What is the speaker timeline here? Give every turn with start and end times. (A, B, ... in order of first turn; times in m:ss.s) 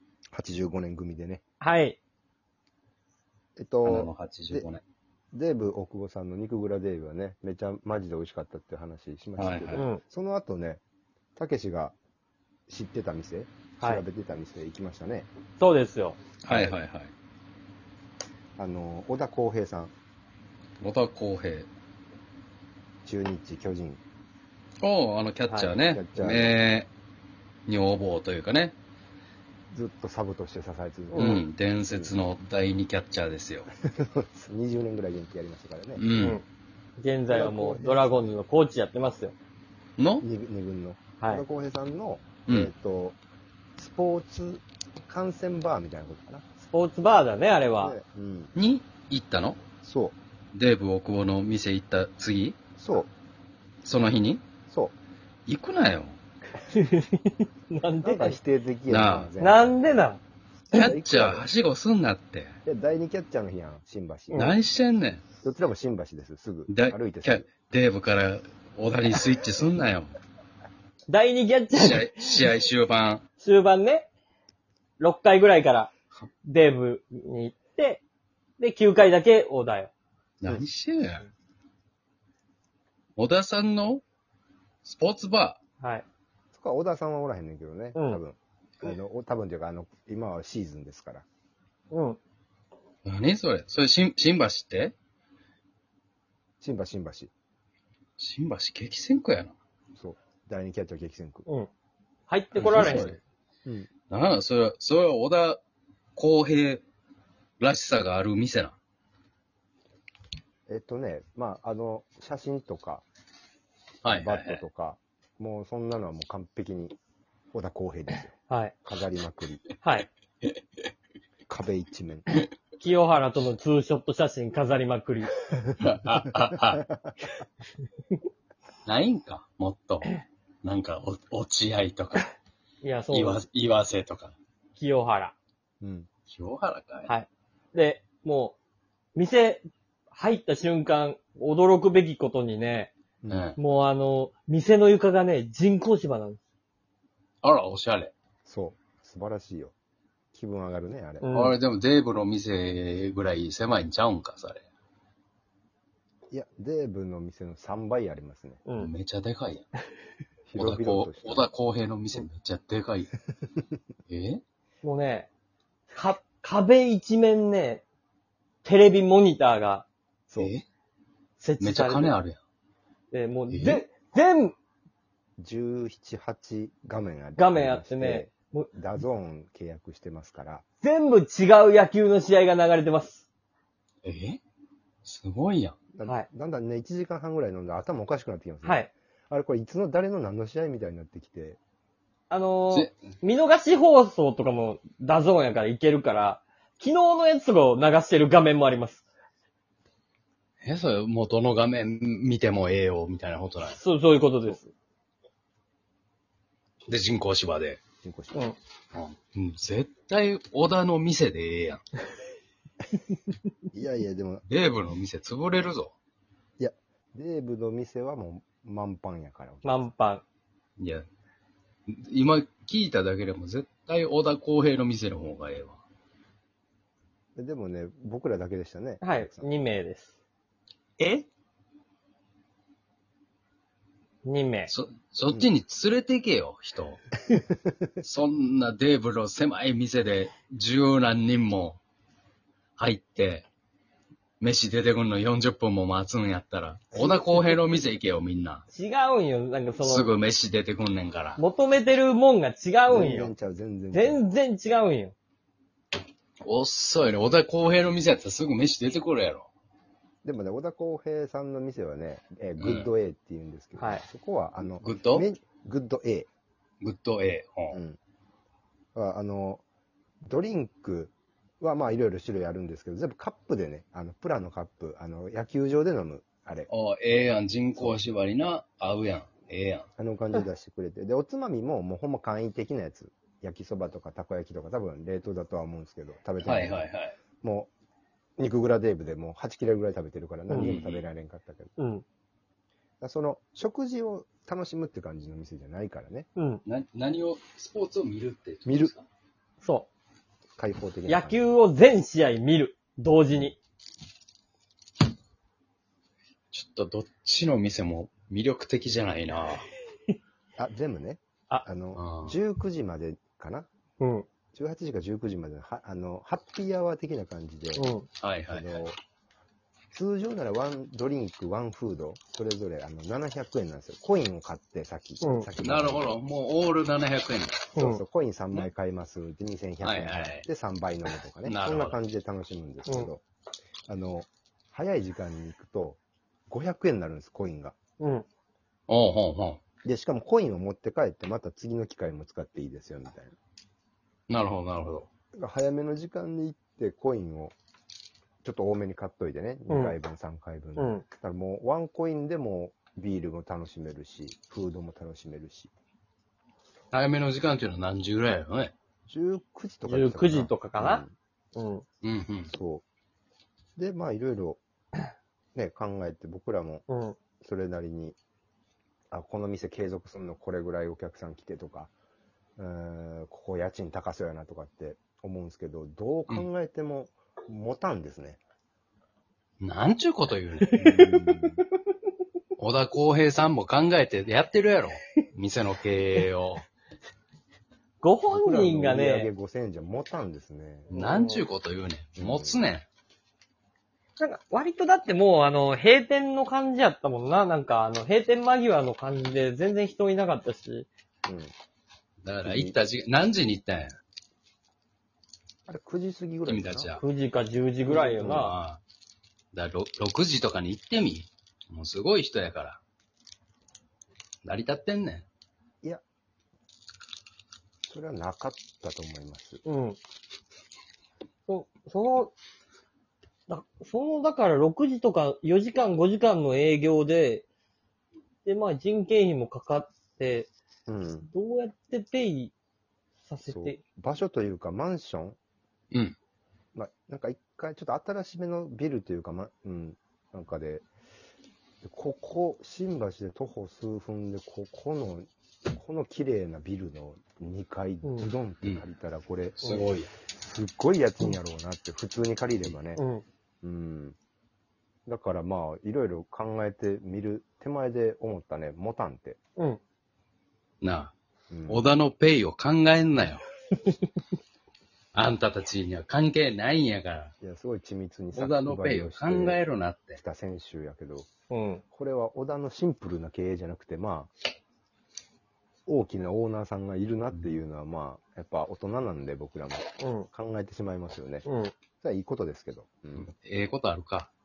0:00.3-0:01.4 A
0:01.6-0:02.0 B
0:03.6-0:04.7 A
0:03.8-0:04.8 C
0:05.3-0:10.8 A
0:09.4-0:09.8 C
0:09.8-0:10.0 B
0:11.4-0:12.0 A
0:12.7-0:15.3 A
0:15.6-0:16.2 B
0:16.4-0:17.1 C
0:16.5-0:16.8 A
0:18.6-0:19.9 A
0:20.8-0:21.7 C
0:23.0-0:24.0 A
0:24.8-0:26.9 C
0:25.8-0:26.6 A
0:27.7-0:28.8 C
0:29.7-0:32.1 A
0:31.1-0:31.4 B
0:31.2-0:33.7 C
0:33.8-0:36.0 A
0:36.0-0:36.4 C
0:36.2-0:36.4 B
0:37.0-0:39.4 B
0:37.3-0:38.3 A
0:40.0-0:40.2 C
0:40.2-0:43.2 A
0:42.5-0:42.7 C
0:43.8-0:46.5 A
0:46.7-0:48.0 B
0:47.8-0:48.5 A
0:48.6-0:49.6 C
0:49.8-0:50.2 A
0:50.5-0:52.6 C
0:52.8-0:53.1 A
0:53.8-0:54.4 C
0:54.7-0:55.0 A
0:55.5-0:56.2 C
0:56.7-0:58.4 B
0:58.0-0:59.8 A
0:58.9-0:59.3 C
0:59.4-1:00.2 B
1:00.7-1:02.6 C
1:00.7-1:01.5 A
1:02.7-1:04.5 A
1:04.3-1:04.6 B
1:04.4-1:05.2 C
1:05.4-1:07.5 A
1:06.7-1:10.2 C
1:11.1-1:12.3 B
1:11.8-1:13.2 C
1:13.4-1:14.1 B
1:15.0-1:15.9 B
1:16.4-1:18.0 B
1:18.6-1:19.9 B
1:20.4-1:21.3 C
1:23.2-1:24.0 C
1:24.8-1:25.6 C
1:25.8-1:26.1 B
1:26.5-1:31.3 A
1:28.0-1:28.2 B
1:31.9-1:32.2 B
1:33.1-1:34.9 C
1:36.6-1:37.3 A
1:38.2-1:39.6 C
1:40.0-1:41.4 A
1:42.3-1:43.1 B
1:42.6-1:43.9 A
1:42.6-1:43.2 C
1:44.1-1:45.6 C
1:46.2-1:46.8 C
1:47.6-1:48.8 C
1:50.7-1:53.1 A
1:54.0-1:54.6 C
1:54.1-1:57.0 A
1:57.5-1:59.6 A
1:58.5-1:58.7 B
1:59.8-2:00.1 B
2:01.5-2:02.3 A
2:02.8-2:05.3 B
2:05.8-2:06.8 C
2:06.8-2:07.3 A
2:08.9-2:12.3 C
2:12.8-2:13.4 B
2:13.1-2:14.4 C
2:14.8-2:15.4 B
2:15.8-2:16.1 A
2:16.3-2:17.1 C
2:17.1-2:18.6 B
2:19.2-2:22.9 B
2:23.2-2:23.5 A
2:23.3-2:23.6 C
2:23.6-2:26.4 B
2:27.4-2:28.1 C
2:28.4-2:29.8 A
2:30.3-2:31.3 A
2:31.2-2:31.6 B
2:31.3-2:34.6 C
2:36.3-2:38.6 A
2:38.8-2:39.7 C
2:40.5-2:41.5 A
2:40.6-2:43.1 C
2:44.1-2:44.4 C
2:44.8-2:45.3 B
2:45.9-2:47.8 B
2:48.6-2:49.9 B
2:50.3-2:50.5 A
2:50.4-2:50.6 C
2:51.4-2:52.2 B
2:51.6-2:52.4 C
2:53.1-2:54.6 B
2:53.5-2:53.8 C
2:55.4-3:00.6 A
2:57.4-2:58.7 B
3:00.8-3:03.2 B
3:04.0-3:04.4 C
3:05.0-3:05.8 C
3:05.9-3:11.6 A
3:08.6-3:08.9 B
3:12.3-3:19.0 B
3:12.7-3:13.0 C
3:20.6-3:23.8 C
3:23.7-3:24.7 B
3:26.9-3:27.8 C
3:28.0-3:28.5 A
3:28.9-3:31.8 C
3:33.7-3:34.4 A
3:34.5-3:35.9 C
3:36.6-3:39.8 A
3:39.6-3:40.2 B
3:40.8-3:41.1 C
3:41.9-3:45.8 C
3:47.4-3:49.5 A
3:49.0-3:50.1 B
3:51.0-3:51.3 C
3:54.2-3:54.7 B
3:54.7-3:57.0 C
3:58.0-4:01.8 C
4:02.8-4:03.5 C
4:04.4-4:08.6 C
4:06.9-4:07.6 A
4:08.7-4:10.1 B
4:09.8-4:11.4 C
4:11.4-4:13.3 B
4:12.9-4:14.2 A
4:13.9-4:15.2 B
4:16.4-4:19.5 C
4:20.2-4:26.3 A
4:22.6-4:22.9 C
4:23.8-4:24.0 B
4:24.8-4:25.3 C
4:26.8-4:27.8 C
4:27.7-4:28.0 A
4:29.0-4:29.6 A
4:30.3-4:36.7 A
4:36.7-4:39.9 C
4:37.8-4:38.0 A
4:40.0-4:46.8 A
4:46.4-4:47.2 C
4:47.4-4:47.7 A
4:48.4-4:51.7 A
4:50.5-4:51.0 C
4:51.8-4:52.0 B
4:53.0-4:56.3 A
4:56.4-4:56.6 B
4:56.7-4:59.0 C
4:58.7-4:58.9 A
4:59.6-4:59.9 B
5:00.6-5:01.4 A
5:01.1-5:03.6 B
5:06.5-5:09.7 C
5:10.6-5:13.7 A
5:12.0-5:12.4 C
5:14.0-5:14.3 B
5:14.5-5:18.0 A
5:17.8-5:18.1 B
5:18.2-5:18.8 C
5:18.5-5:19.0 A
5:19.9-5:26.2 A
5:25.2-5:25.5 B
5:25.6-5:27.7 C
5:27.8-5:28.0 B
5:27.8-5:33.2 A
5:29.8-5:30.4 C
5:31.4-5:32.0 C
5:33.9-5:37.8 A
5:38.0-5:38.3 B
5:38.9-5:39.6 C
5:39.8-5:43.4 A
5:44.3-5:45.1 C
5:45.3-5:47.6 A
5:48.4-5:55.7 A
5:49.7-5:50.0 B
5:50.8-5:51.0 B
5:56.9-5:58.7 C
5:59.1-6:01.1 A
5:59.9-6:01.0 B
6:01.6-6:01.8 B
6:02.0-6:02.5 C
6:02.5-6:02.8 A
6:03.8-6:04.6 A
6:05.6-6:06.8 A
6:06.9-6:07.2 B
6:07.4-6:08.2 A
6:09.1-6:11.9 A
6:12.6-6:18.4 A
6:19.6-6:21.0 C
6:20.8-6:21.1 B
6:20.8-6:21.6 A
6:22.6-6:26.6 C
6:28.0-6:29.3 B
6:28.3-6:30.9 A
6:30.9-6:32.9 C
6:30.9-6:31.4 B
6:32.2-6:32.6 A
6:34.2-6:40.9 B
6:41.3-6:41.5 A
6:42.2-6:44.0 C
6:42.4-6:42.8 A
6:45.7-6:46.9 A
6:46.5-6:47.0 C
6:47.0-6:48.6 B
6:47.9-6:48.5 A
6:47.9-6:48.8 C
6:49.5-6:52.8 C
6:54.4-6:55.3 C
6:57.9-6:59.6 A
6:59.6-7:00.0 B
7:01.5-7:02.3 B
7:03.5-7:07.5 B
7:08.4-7:10.5 B
7:10.9-7:11.3 A
7:11.3-7:12.5 B
7:13.2-7:13.8 B
7:13.5-7:15.4 A
7:16.7-7:20.9 A
7:21.8-7:33.0 A
7:28.0-7:28.3 B
7:29.6-7:30.1 C
7:33.0-7:33.2 B
7:33.6-7:34.2 A
7:35.1-7:39.4 A
7:40.8-7:41.1 C
7:41.5-7:41.9 A
7:41.7-7:43.4 C
7:45.1-7:47.3 C
7:47.4-7:49.6 A
7:48.3-7:50.2 C
7:50.2-7:51.3 A
7:51.5-7:51.8 B
7:51.9-7:54.3 A
7:55.9-8:01.5 A
8:00.0-8:00.3 B
8:01.5-8:01.7 B
8:02.0-8:03.3 A
8:03.2-8:04.3 C